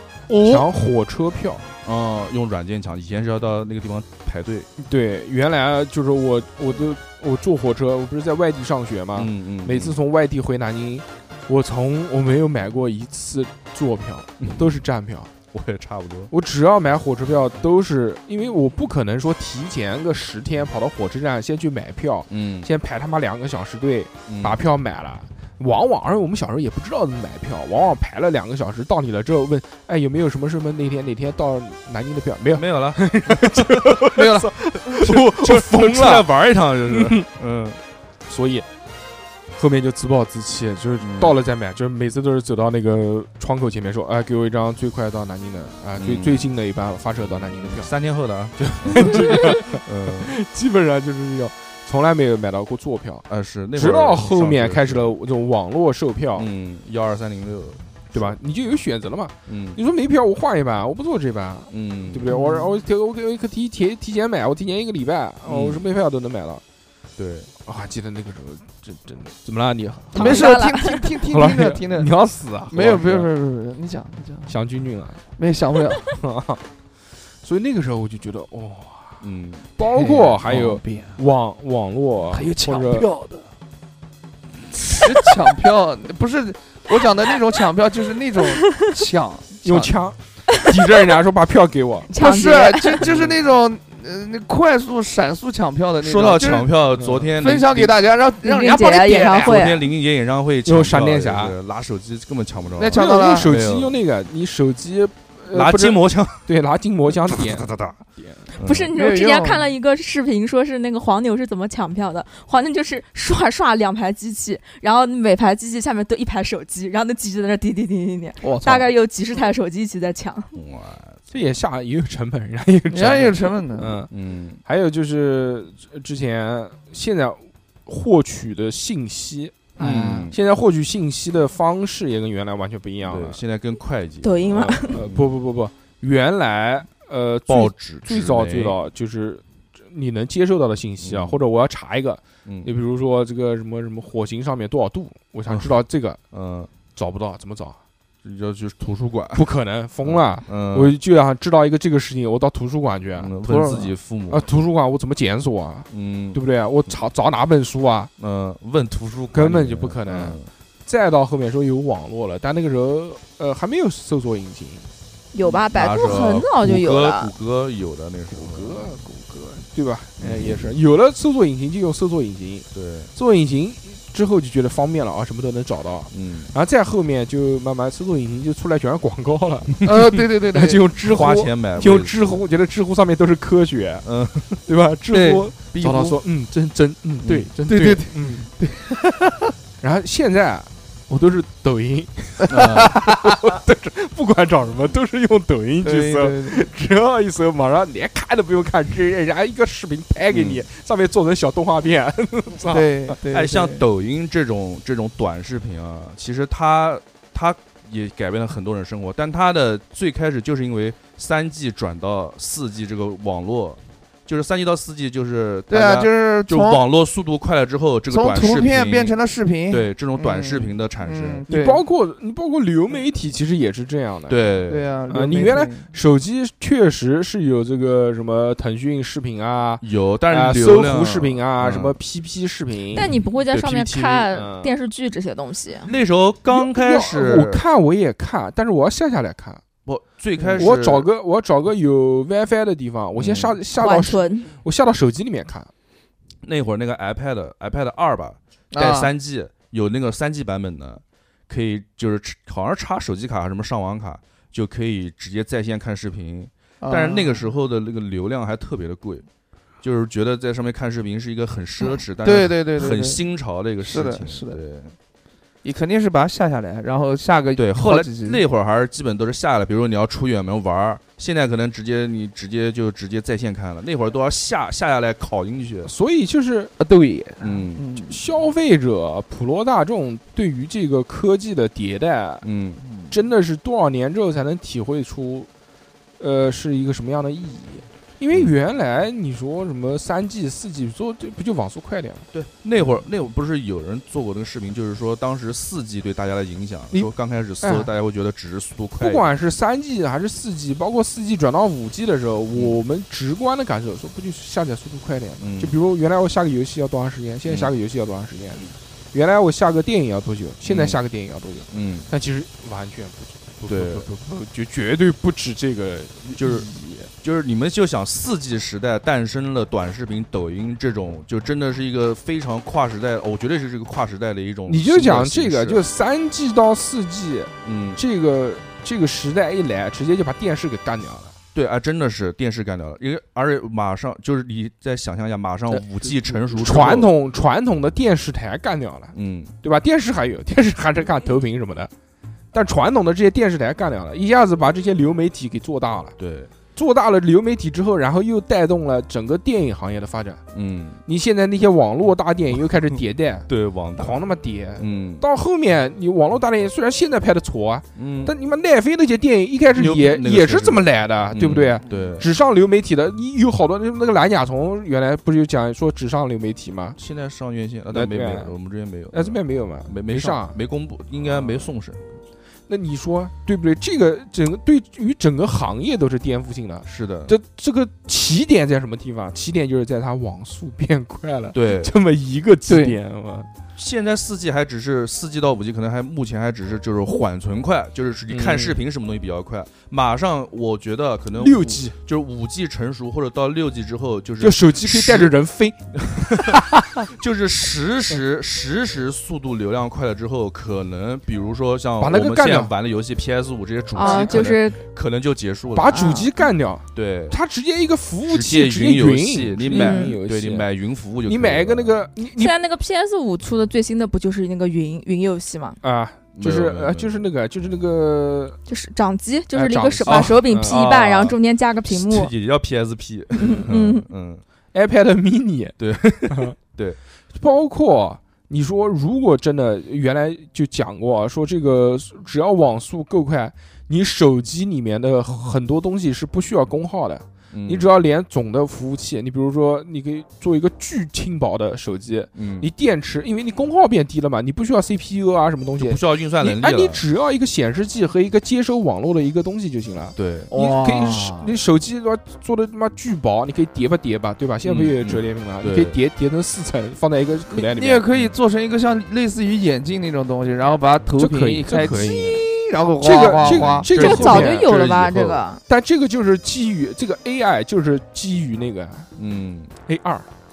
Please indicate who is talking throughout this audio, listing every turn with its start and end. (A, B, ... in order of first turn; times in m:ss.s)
0:00.3-0:00.6 A
0:00.4-0:01.7 B
0:01.8-0:04.7 A
0:04.8-0:15.3 B
0:09.2-0:10.0 A
0:14.4-0:14.8 A
0:15.5-0:16.3 A
0:16.3-0:36.3 B
0:22.3-0:22.7 A
0:24.3-0:24.6 A
0:32.5-0:34.0 A
0:34.1-0:35.1 C
0:35.0-0:37.8 A
0:36.8-0:37.2 B
0:38.2-0:38.7 B
0:39.6-0:47.9 B
0:41.0-0:41.4 A
0:46.0-0:46.5 A
0:47.2-0:50.3 A
0:48.6-0:56.5 B
0:53.3-0:55.1 A
0:56.4-0:58.3 A
0:58.1-1:06.6 B
0:59.5-0:59.8 A
1:01.7-1:02.3 A
1:02.3-1:02.7 C
1:05.4-1:05.8 A
1:07.2-1:07.5 A
1:07.6-1:10.5 B
1:10.1-1:12.1 C
1:10.1-1:11.1 D
1:11.2-1:13.0 B
1:12.7-1:14.5 C
1:12.7-1:13.3 A
1:14.4-1:15.2 B
1:15.4-1:16.1 C
1:16.2-1:16.6 B
1:17.4-1:19.2 B
1:19.2-1:19.7 A
1:19.8-1:23.1 B
1:19.9-1:21.2 C
1:22.3-1:23.4 C
1:24.8-1:29.9 C
1:29.6-1:32.1 B
1:32.1-1:33.0 D
1:32.2-1:36.7 C
1:33.0-1:33.3 A
1:36.0-1:38.0 A
1:36.9-1:37.3 B
1:37.4-1:39.6 C
1:38.4-1:39.8 D
1:39.4-1:44.0 A
1:40.6-1:41.6 B
1:42.8-1:43.5 C
1:42.9-1:48.5 B
1:45.5-1:46.5 A
1:47.4-1:47.9 A
1:48.5-2:00.5 D
1:48.6-1:48.9 A
1:48.9-1:49.6 C
1:58.4-1:58.9 C
2:00.5-2:01.2 A
2:01.3-2:04.1 B
2:02.9-2:04.0 C
2:04.1-2:04.6 A
2:04.6-2:13.4 B
2:09.8-2:10.3 C
2:09.8-2:10.4 A
2:13.0-2:15.3 A
2:14.2-2:15.0 D
2:14.5-2:26.2 B
2:17.5-2:18.8 A
2:21.0-2:21.4 A
2:22.4-2:22.7 A
2:25.5-2:25.8 A
2:26.3-2:26.7 A
2:26.9-2:27.8 B
2:28.2-2:29.5 A
2:29.3-2:38.1 B
2:30.0-2:30.9 A
2:33.2-2:34.4 A
2:35.9-2:37.0 A
2:38.2-2:40.5 A
2:39.3-2:44.9 B
2:45.3-2:47.3 D
2:45.7-2:48.9 A
2:48.3-3:08.5 B
2:50.2-2:50.7 A
2:52.7-2:53.1 A
2:56.1-2:56.5 A
2:59.8-3:00.8 C
3:01.0-3:02.4 A
3:04.0-3:04.6 A
3:05.1-3:05.5 C
3:05.7-3:06.2 A
3:07.2-3:07.5 A
3:07.7-3:09.5 C
3:09.8-3:23.2 B
3:12.5-3:13.0 A
3:12.6-3:13.1 C
3:15.8-3:16.6 C
3:20.3-3:20.6 A
3:22.7-3:23.8 C
3:23.3-3:39.1 A
3:35.7-3:36.8 C
3:38.1-3:41.8 C
3:39.7-3:41.4 A
3:41.5-3:44.4 B
3:44.3-3:44.9 A
3:44.7-3:45.9 C
3:45.1-3:54.7 B
3:49.8-3:52.0 A
3:52.9-3:55.9 D
3:55.8-3:57.6 A
3:56.5-3:59.6 B
3:59.8-4:01.1 A
4:00.4-4:00.7 C
4:00.6-4:05.7 B
4:03.2-4:03.5 A
4:03.7-4:04.5 D
4:06.4-4:19.2 A
4:08.7-4:09.1 C
4:16.8-4:17.5 C
4:19.8-4:24.9 A
4:22.2-4:23.2 C
4:23.8-4:24.6 C
4:25.6-4:28.4 C
4:27.6-4:35.9 A
4:35.8-4:36.7 B
4:36.8-4:38.2 C
4:37.4-4:37.8 A
4:38.0-4:42.4 B
4:42.4-4:42.8 A
4:42.8-4:43.2 C
4:43.1-4:45.5 B
4:46.2-4:52.3 B
4:52.3-4:59.3 A
4:57.6-4:57.9 B
4:59.0-5:17.1 B
5:05.4-5:05.7 A
5:07.4-5:07.7 A
5:10.6-5:11.0 A
5:11.7-5:12.1 A
5:13.7-5:14.1 A
5:16.3-5:25.8 A
5:24.6-5:31.3 B
5:27.6-5:28.0 A
5:31.5-5:37.1 A
5:36.6-5:41.9 B
5:39.1-5:39.5 A
5:42.5-5:46.1 B
5:46.2-5:46.5 A
5:46.7-5:50.4 B
5:50.5-5:51.0 A
5:51.0-6:07.0 B
5:53.5-5:54.2 A
5:54.8-5:55.2 A
5:58.0-5:58.3 A
5:59.7-6:02.3 A
6:07.0-6:12.2 A
6:07.9-6:08.5 B
6:09.1-6:10.6 B
6:12.7-6:23.5 B
6:16.8-6:17.3 A
6:21.5-6:21.9 A
6:22.7-6:23.0 C
6:23.8-6:35.3 A
6:28.3-6:28.8 B
6:31.4-6:32.0 B
6:34.4-6:36.6 B
6:36.3-6:46.0 A
6:42.0-6:42.7 B
6:43.9-6:44.8 D
6:44.0-6:44.6 B
6:45.7-6:50.7 B
6:45.9-6:46.3 D
6:46.9-6:47.4 A
6:48.3-6:52.1 A
6:49.7-6:50.2 D
6:51.2-6:52.5 B
6:52.4-6:55.8 D
6:55.8-6:58.6 B
6:56.4-6:57.2 A
6:58.7-7:02.3 D
6:59.5-7:00.8 B
7:00.1-7:01.4 A
7:01.9-7:04.4 A
7:03.4-7:04.0 D
7:04.7-7:06.5 B
7:05.8-7:07.0 A
7:07.3-7:38.0 B
7:17.5-7:17.9 A
7:22.3-7:22.7 A
7:25.8-7:27.0 A
7:30.2-7:30.5 A
7:30.5-7:31.5 C
7:34.6-7:36.0 A
7:37.5-7:43.9 C
7:41.2-7:42.4 B
7:43.0-7:44.7 B
7:43.2-7:45.4 A
7:43.9-7:45.6 D
7:45.7-7:49.1 B
7:49.2-7:49.7 A
7:49.8-7:50.3 B